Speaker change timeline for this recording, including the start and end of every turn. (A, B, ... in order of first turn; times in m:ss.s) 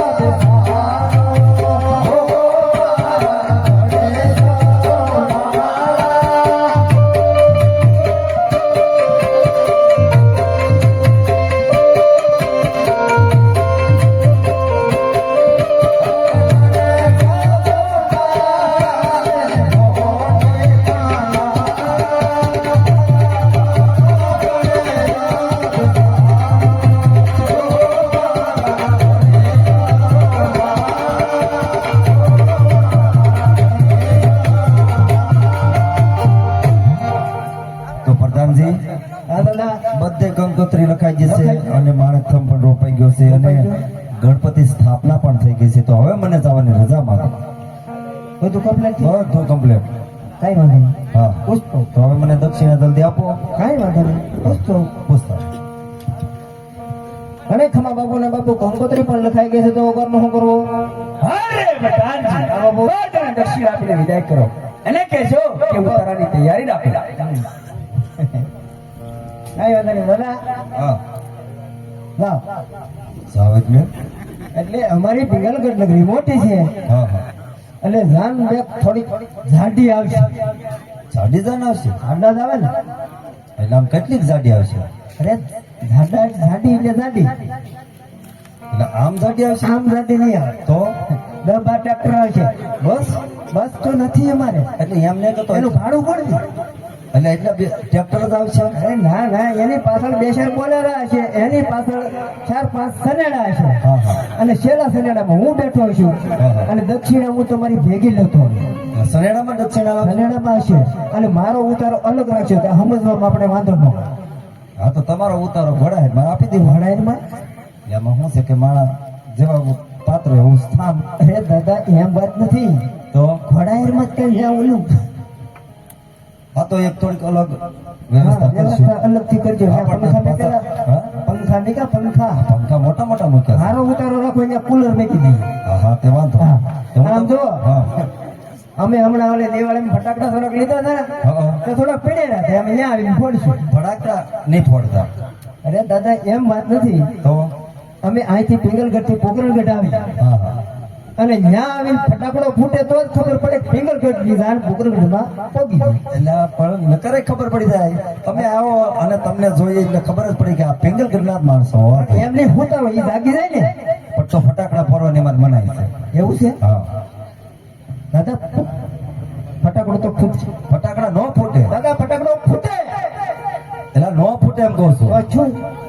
0:38.0-0:38.8 A
0:39.3-0:39.8 B
0:39.9-0:47.4 A
0:41.2-0:41.7 B
0:43.3-0:43.8 B
0:48.4-0:49.2 B
0:49.0-0:49.9 A
0:50.4-0:51.9 B
0:51.1-0:53.4 A
0:53.6-0:54.9 B
0:54.4-0:55.5 A
0:57.5-1:00.7 B
1:01.2-1:07.2 C
1:02.1-1:03.0 B
1:05.7-1:06.0 B
1:07.1-1:07.4 B
1:08.2-1:08.4 B
1:09.6-1:10.4 B
1:13.3-1:13.9 A
1:14.6-1:16.7 B
1:16.9-1:17.2 A
1:17.8-1:20.4 B
1:21.1-1:22.0 A
1:22.0-1:22.7 B
1:23.6-1:24.9 A
1:25.2-1:27.3 B
1:28.7-1:29.7 A
1:29.6-1:30.6 B
1:30.6-1:30.9 A
1:31.3-1:32.5 B
1:32.8-1:33.2 A
1:33.5-1:34.7 B
1:34.8-1:35.8 A
1:35.5-1:36.4 B
1:37.1-1:38.8 A
1:38.8-1:43.8 B
1:43.8-1:44.2 A
1:44.3-1:48.7 B
1:46.4-1:46.7 A
1:48.9-1:50.2 A
1:50.0-1:54.1 B
1:54.8-1:56.8 A
1:56.6-1:57.2 B
1:57.9-2:01.1 A
2:01.2-2:02.8 B
2:03.1-2:03.4 A
2:03.5-2:05.0 B
2:06.5-2:08.9 A
2:08.2-2:12.4 B
2:09.6-2:11.1 A
2:12.4-2:13.8 A
2:13.5-2:15.5 B
2:15.6-2:17.9 A
2:16.4-2:18.0 B
2:18.8-2:23.6 B
2:21.2-2:21.6 A
2:23.7-2:25.1 A
2:25.6-2:27.1 B
2:27.2-2:27.5 A
2:28.0-2:30.1 B
2:30.2-2:30.6 A
2:31.2-2:36.0 B
2:36.1-2:42.3 A
2:41.9-2:43.7 B
2:44.1-2:45.9 A
2:46.1-2:46.6 B
2:46.6-2:46.9 A
2:48.1-2:48.7 B
2:49.6-2:50.5 B
2:50.7-2:51.8 A
2:51.7-2:53.0 B
2:53.9-2:55.2 A
2:55.1-2:55.6 B